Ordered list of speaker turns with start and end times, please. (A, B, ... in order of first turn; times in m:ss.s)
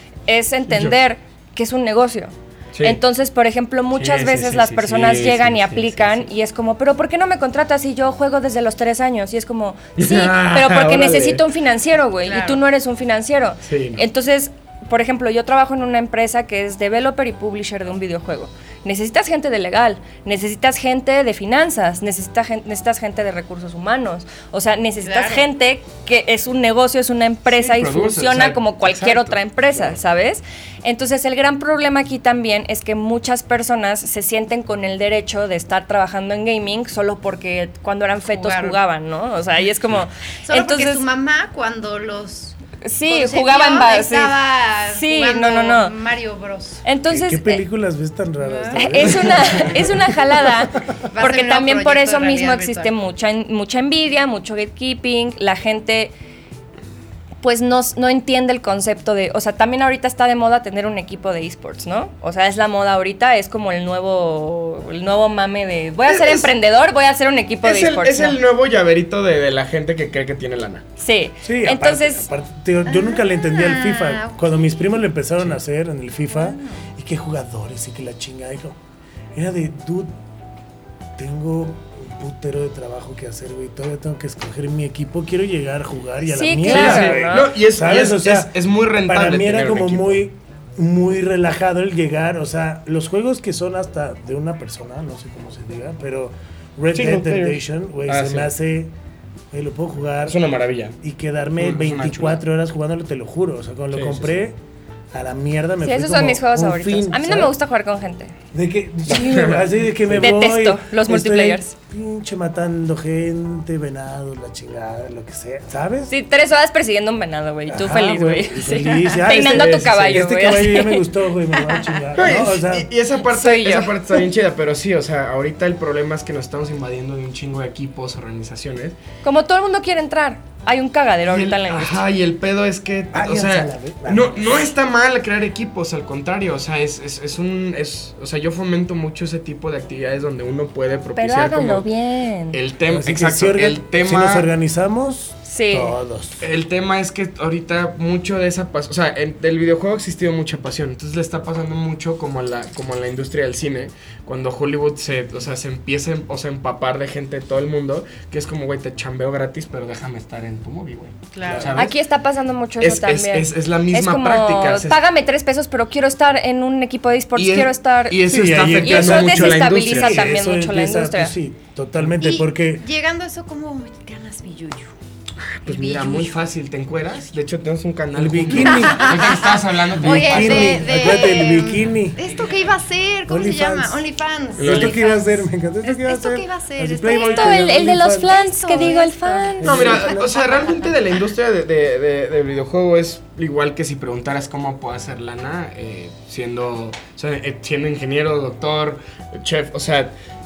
0:00.3-0:41.0 A
0:00.7-0:01.0 B
0:02.7-0:03.0 B
0:03.9-0:06.3 B
0:10.0-0:11.4 B
0:12.2-0:12.6 C
0:13.6-0:14.0 B
0:25.0-0:25.5 C
0:27.5-0:30.0 B
0:38.3-0:38.8 C
0:40.5-0:42.6 C
0:42.8-0:45.9 A
0:43.1-0:46.8 C
0:46.8-0:47.6 A
0:47.1-0:50.4 D
0:48.4-0:49.0 C
0:48.8-0:56.1 A
0:51.1-0:52.9 C
0:57.4-1:08.4 A
1:06.1-1:06.5 B
1:07.6-1:10.8 B
1:11.0-1:12.3 A
1:11.4-1:18.8 D
1:12.9-1:14.4 C
1:16.3-1:16.8 C
1:19.3-1:20.1 D
1:21.2-1:28.5 D
1:26.3-1:27.5 A
1:26.7-1:30.2 B
1:29.0-1:38.9 D
1:36.9-1:38.5 B
1:39.5-1:40.4 D
1:40.3-1:41.0 B
1:41.0-1:44.6 D
1:41.6-1:42.4 B
1:43.9-1:44.4 B
1:45.1-1:47.5 D
1:45.8-1:48.3 A
1:48.5-1:56.1 D
1:49.1-1:50.3 B
1:49.1-1:49.5 A
1:50.2-1:51.7 A
1:56.1-2:01.1 A
1:57.7-2:02.9 D
2:01.6-2:02.2 C
2:02.2-2:09.0 B
2:03.2-2:04.0 A
2:09.2-2:12.0 A
2:11.3-2:21.9 B
2:13.1-2:14.7 D
2:21.2-2:22.6 A
2:22.5-2:24.5 B
2:22.9-2:26.5 D
2:25.5-2:25.9 A
2:26.4-2:42.0 B
2:41.3-2:41.7 C
2:41.4-2:41.7 D
2:41.7-2:48.2 A
2:42.8-2:45.0 B
2:47.4-2:50.2 B
2:48.2-2:52.9 D
2:48.8-2:51.3 A
2:52.2-2:54.9 C
2:55.6-3:01.2 B
2:55.6-2:56.4 C
2:58.2-2:59.4 D
2:58.6-3:11.1 C
3:00.0-3:02.2 D
3:03.3-3:04.0 D
3:04.6-3:05.0 B
3:04.6-3:09.0 D
3:07.1-3:09.8 A
3:09.6-3:10.4 D
3:09.6-3:20.1 B